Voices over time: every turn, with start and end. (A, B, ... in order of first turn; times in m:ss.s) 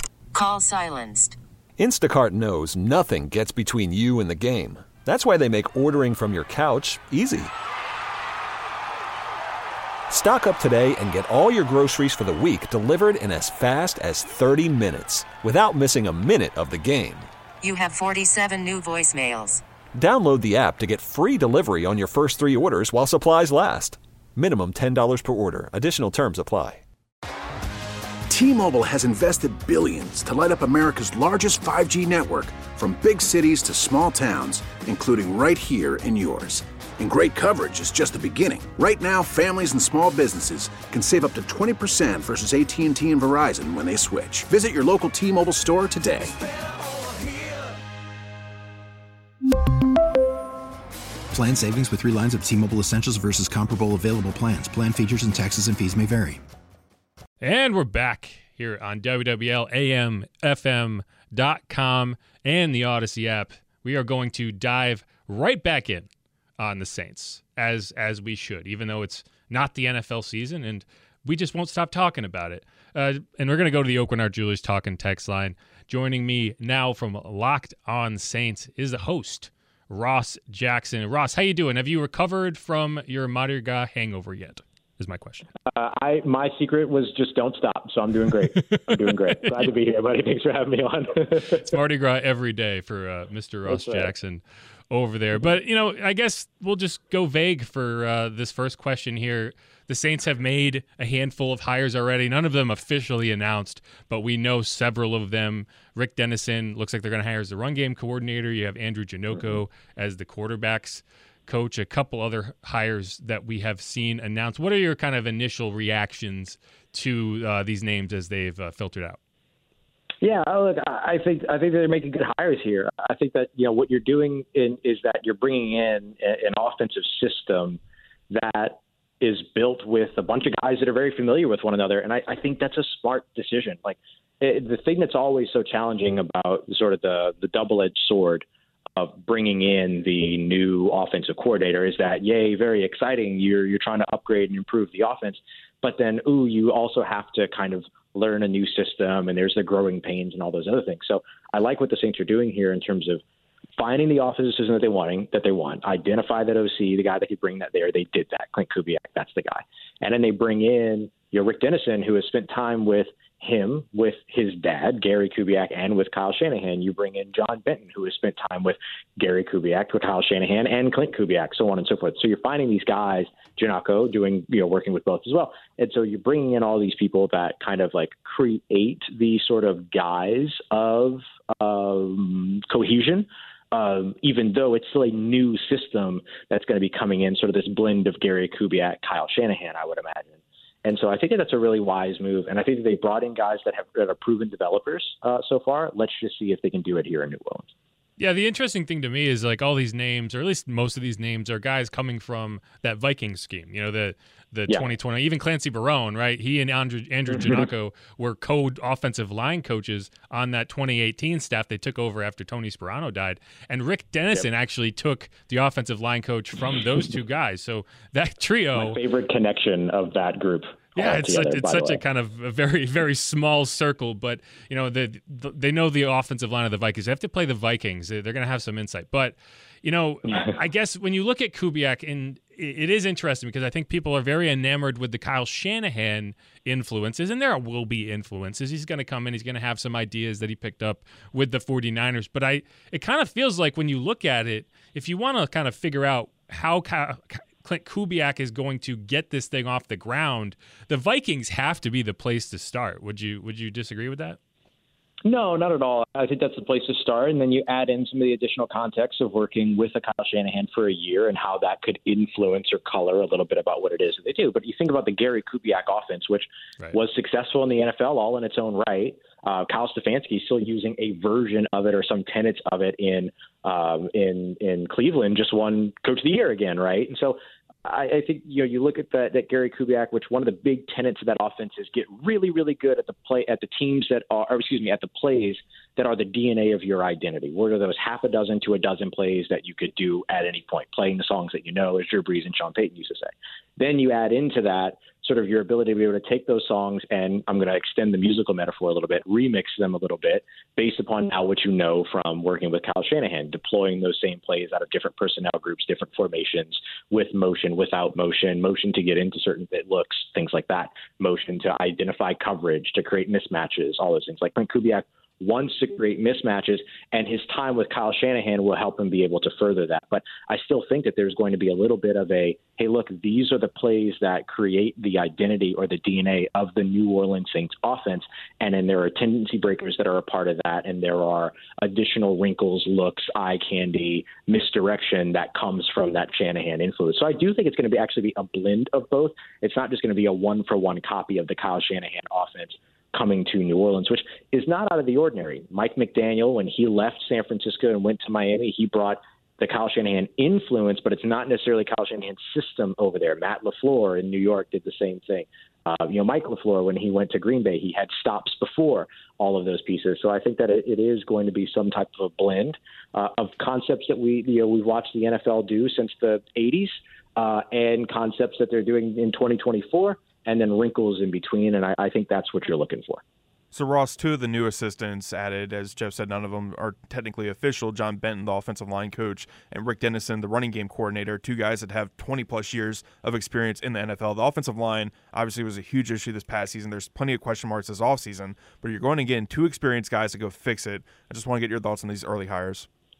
0:00.3-0:01.4 A
0:01.8-0:07.5 B
0:10.1-0:17.3 B
0:17.6-0:19.6 A
0:19.9-0:26.8 B
0:28.3-0:46.3 C
0:51.3-0:56.4 D
0:57.4-1:25.4 E
1:25.7-1:31.7 F
1:28.6-1:28.9 E
1:31.5-1:59.2 E
1:33.7-1:34.1 F
2:00.2-2:07.8 F
2:08.3-2:18.4 F
2:19.0-2:33.2 F
2:33.8-3:17.7 F
3:18.2-3:39.0 E
3:27.3-3:27.6 F
3:38.8-3:42.0 F
3:41.0-4:14.4 E
4:15.2-6:13.2 F
6:13.7-6:32.9 G